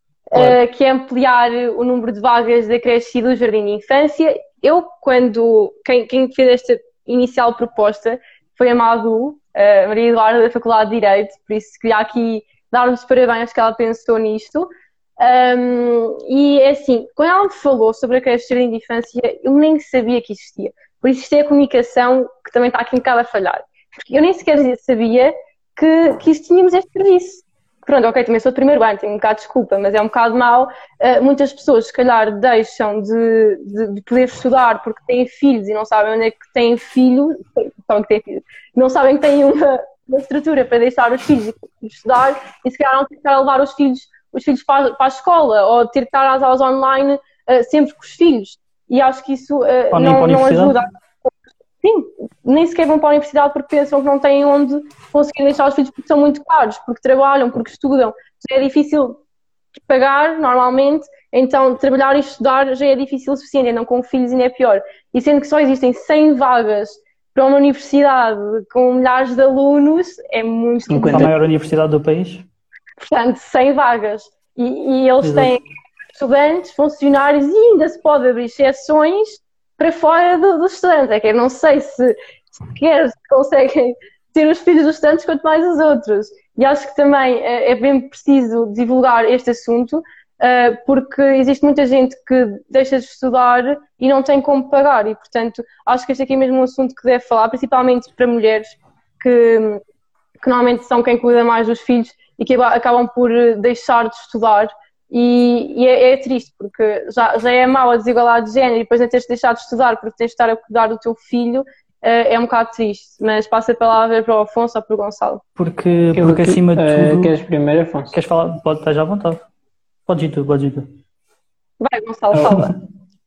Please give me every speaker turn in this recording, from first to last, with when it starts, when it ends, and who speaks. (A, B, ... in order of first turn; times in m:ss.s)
0:00.3-0:59.2 A
0:49.9-0:50.8 B
0:59.9-1:11.3 A
1:10.9-1:11.3 C
1:11.1-1:12.4 B
1:13.0-1:39.8 A
1:15.2-1:15.6 B
1:40.4-1:55.4 A
1:55.6-1:57.3 B
1:56.2-1:58.2 C
1:58.1-1:59.5 B
2:00.1-2:00.9 B
2:01.8-2:02.8 A